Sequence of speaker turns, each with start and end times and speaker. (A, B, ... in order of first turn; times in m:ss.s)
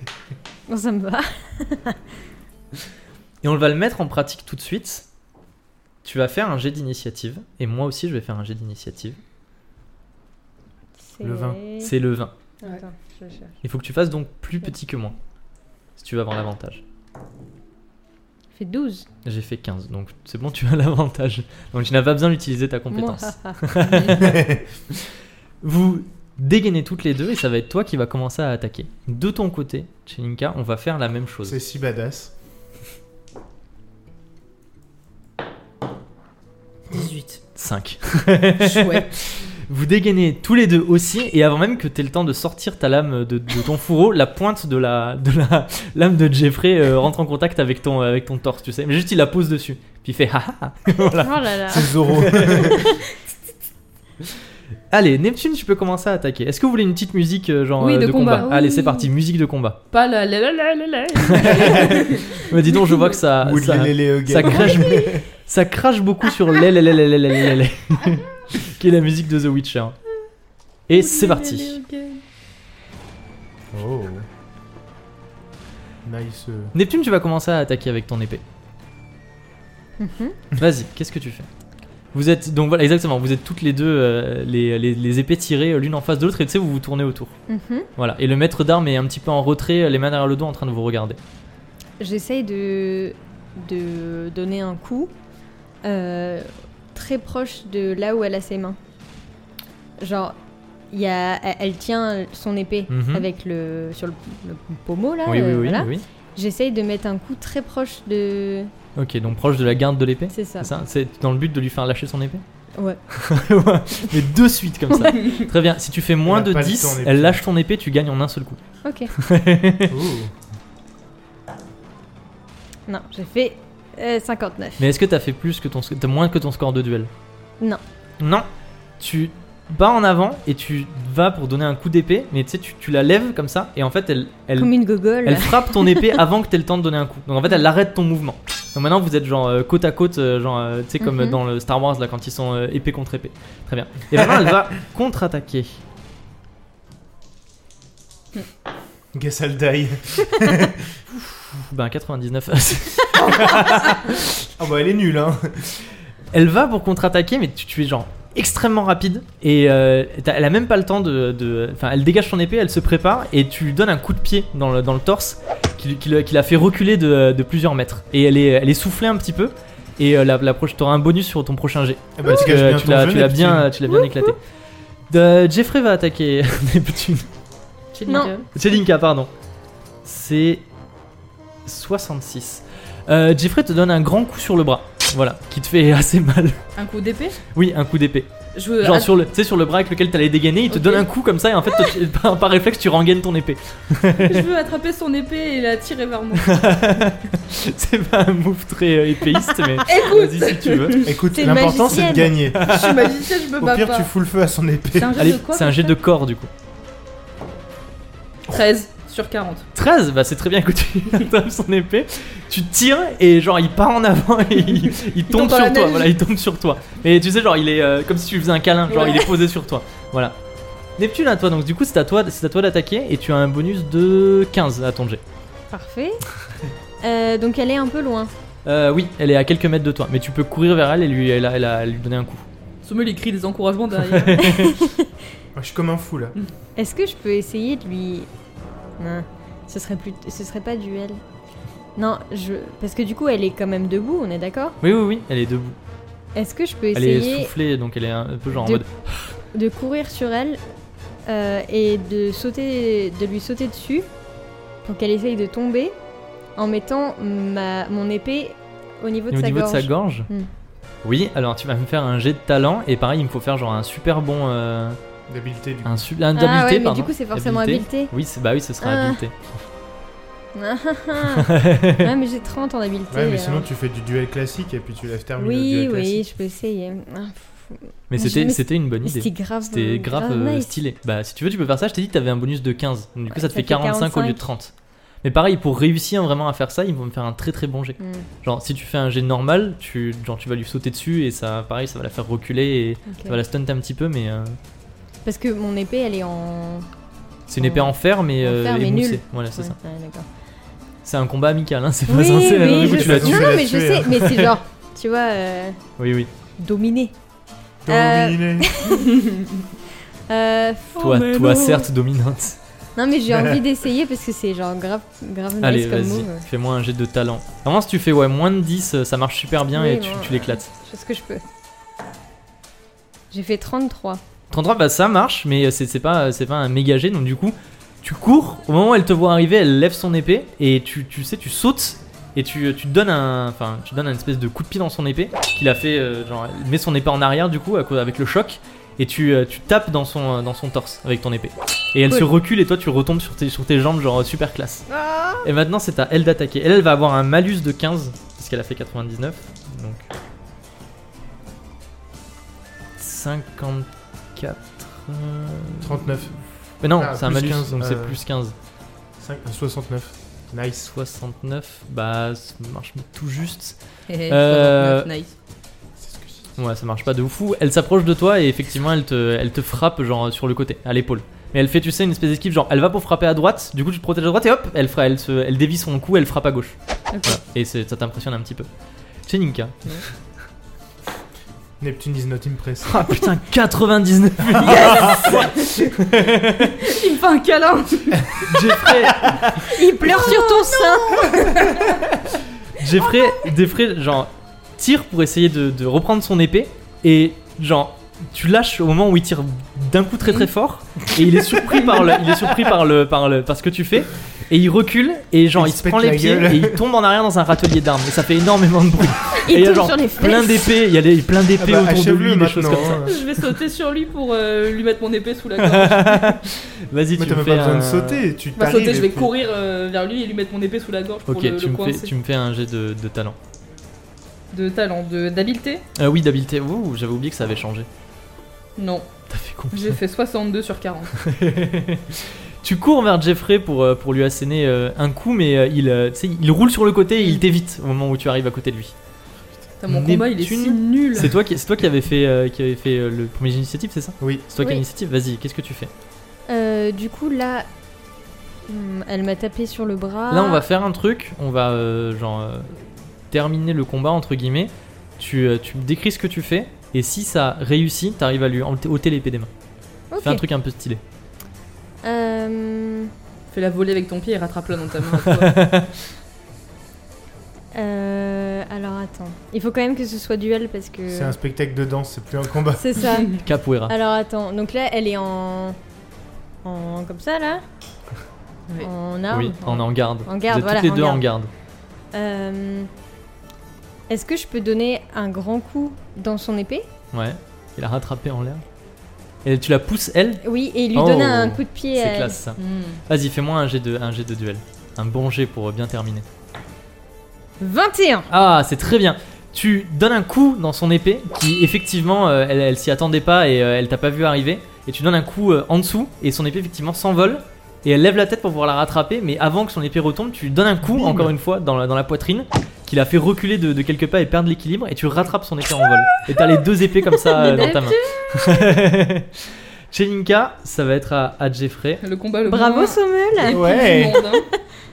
0:00.7-0:02.0 A
0:03.4-0:05.0 B
0:06.0-0:09.2 B
0:11.0-0:11.9 A
0:11.2-0:11.6 C
0:11.8-0:12.3 B
0:12.6-0:13.5 A
0:13.6-0:15.2 B
0:16.0-0:16.8 B
0:18.5-0:19.0 A
0:19.2-0:31.6 B
0:22.9-0:23.6 A
0:23.9-0:24.3 D
0:24.1-0:24.6 C
0:31.4-0:32.3 C
0:36.9-0:37.4 D
0:37.5-0:52.8 B
0:38.6-0:39.1 D
0:51.1-0:52.0 A
0:51.7-0:52.9 C
0:52.6-0:53.1 A
0:54.9-0:59.8 B
0:57.8-0:59.1 D
0:59.9-1:03.1 D
1:01.2-1:10.0 B
1:01.4-1:01.9 C
1:03.4-1:05.2 C
1:10.9-1:11.8 B
1:10.9-1:12.2 D
1:13.7-1:14.3 C
1:16.0-1:16.7 C
1:16.7-1:18.4 B
1:20.0-1:20.4 A
1:20.5-1:21.5 B
1:22.1-1:27.3 B
1:27.5-1:27.9 A
1:28.0-1:31.2 B
1:32.0-1:35.1 A
1:35.8-1:38.8 A
1:40.0-1:40.4 A
1:40.9-1:48.7 A
1:42.9-1:43.3 B
1:45.2-1:46.0 B
1:49.0-1:52.4 B
1:50.3-1:50.7 A
1:52.7-1:53.0 A
1:53.1-1:58.6 B
1:55.0-1:55.3 A
1:56.2-1:57.4 C
1:58.8-1:59.1 A
1:59.1-2:00.0 B
1:59.9-2:00.3 C
2:02.9-2:04.9 A
2:04.8-2:07.1 B
2:08.2-2:08.4 B
2:09.0-2:25.8 B
2:14.6-2:16.2 A
2:21.0-2:21.4 A
2:29.1-2:30.9 C
2:31.1-2:34.3 B
2:33.4-2:33.9 C
2:34.6-2:35.7 C
2:36.3-2:54.4 B
2:52.2-2:53.7 C
2:53.9-2:54.3 A
2:55.1-2:57.3 B
2:57.9-2:58.5 D
2:58.1-2:58.3 A
2:58.5-2:59.3 B
3:00.0-3:00.6 B
3:01.6-3:06.6 B
3:06.8-3:07.4 D
3:07.5-3:08.3 B
3:08.5-3:09.1 D
3:08.8-3:14.4 B
3:10.7-3:11.1 D
3:14.2-3:16.7 D
3:16.4-3:21.1 B
3:19.8-3:21.7 D
3:21.0-3:22.8 C
3:21.3-3:22.4 A
3:22.5-3:24.1 D
3:22.5-3:23.1 B
3:23.6-3:25.2 C
3:24.9-3:26.0 D
3:25.2-3:26.5 B
3:28.5-3:29.6 D
3:29.7-3:40.4 B
3:35.3-3:36.1 D
3:38.9-3:39.3 D
3:41.0-3:45.2 B
3:45.7-3:46.2 A
3:47.0-3:48.3 A
3:48.6-3:52.4 B
3:52.8-3:54.8 D
3:54.1-3:54.8 B
3:54.4-3:55.1 A
3:55.5-3:56.4 C
3:56.8-3:58.3 A
3:59.0-4:01.2 A
4:02.0-4:04.8 A
4:04.8-4:05.8 B
4:06.3-4:07.5 A
4:06.9-4:09.3 B
4:08.6-4:08.8 A
4:09.5-4:10.6 A
4:11.2-4:14.0 A
4:14.8-4:15.9 A
4:16.6-4:20.5 A
4:19.3-4:20.3 B
4:21.0-4:25.0 B
4:25.3-4:26.1 C
4:25.8-4:29.5 B
4:26.3-4:28.1 A
4:28.8-4:29.2 A
4:30.5-4:33.7 A
4:31.2-4:32.1 B
4:33.1-4:36.2 C
4:35.4-4:40.8 A
4:38.1-4:44.7 B
4:43.3-4:44.4 A
4:45.2-4:54.6 B
4:48.0-4:48.3 A
4:53.1-4:53.4 A
4:55.2-4:56.9 A
4:57.5-4:59.8 B
4:57.6-5:00.2 A
5:01.0-5:03.6 B
5:02.0-5:05.8 A
5:02.5-5:04.5 C
5:04.1-5:04.5 B
5:06.0-5:06.3 B
5:06.6-5:07.1 A
5:07.8-5:08.7 C
5:07.9-5:09.3 A
5:10.3-5:11.9 A
5:11.0-5:12.6 B
5:13.0-5:16.4 A
5:15.6-5:20.7 B
5:19.7-5:21.4 A
5:23.3-5:24.2 A
5:24.5-5:44.9 B
5:45.0-5:45.4 A
5:45.4-5:50.0 B
5:53.0-5:56.2 B
5:55.8-5:56.3 C
5:56.8-5:58.5 B
5:57.0-5:58.2 C
5:59.2-6:00.9 C
6:00.9-6:03.8 B
6:04.1-6:05.3 D
6:04.3-6:05.1 B
6:06.0-6:06.5 C
6:06.6-6:18.7 B
6:19.2-6:20.0 B
6:21.8-6:23.2 C
6:22.8-6:26.8 B
6:24.5-6:25.4 C
6:24.7-6:25.9 D
6:26.7-6:28.8 D
6:28.4-6:29.5 B
6:29.6-6:31.8 A
6:30.3-6:31.9 D
6:32.7-6:53.2 B
6:45.5-6:46.8 C
6:49.4-6:50.8 A
6:51.6-6:53.2 C
6:53.0-6:56.4 D
6:55.6-6:58.2 B
6:57.2-6:59.3 C
6:58.6-7:02.1 D
7:01.3-7:03.4 B
7:04.5-7:05.8 D
7:06.0-7:07.9 B
7:08.8-7:09.1 D
7:09.3-7:10.0 B
7:09.7-7:11.1 D
7:11.2-7:18.9 B
7:19.8-7:21.3 D
7:19.9-7:25.9 B
7:24.2-7:24.5 C
7:26.5-7:27.7 A
7:28.7-7:30.6 A
7:30.3-7:39.5 B
7:40.1-7:40.4 A
7:40.2-7:41.0 B
7:42.0-7:43.1 A
7:43.5-7:45.6 D
7:45.2-7:45.9 B
7:47.7-7:51.4 A
7:51.1-7:53.1 C
7:52.7-7:55.8 A
7:53.3-7:53.9 B
7:56.6-7:57.6 A
7:58.8-8:01.2 A
7:59.3-8:01.5 B
8:02.1-8:02.9 A
8:04.1-8:06.8 A
8:07.1-8:08.6 B
8:09.4-8:10.4 B
8:10.4-8:12.4 A
8:10.9-8:16.2 B
8:12.6-8:13.0 D
8:17.6-8:18.3 A
8:18.3-8:42.0 B
8:30.8-8:31.3 C
8:37.1-8:38.4 A
8:42.0-8:44.4 D
8:42.4-8:43.6 A
8:43.4-8:44.2 C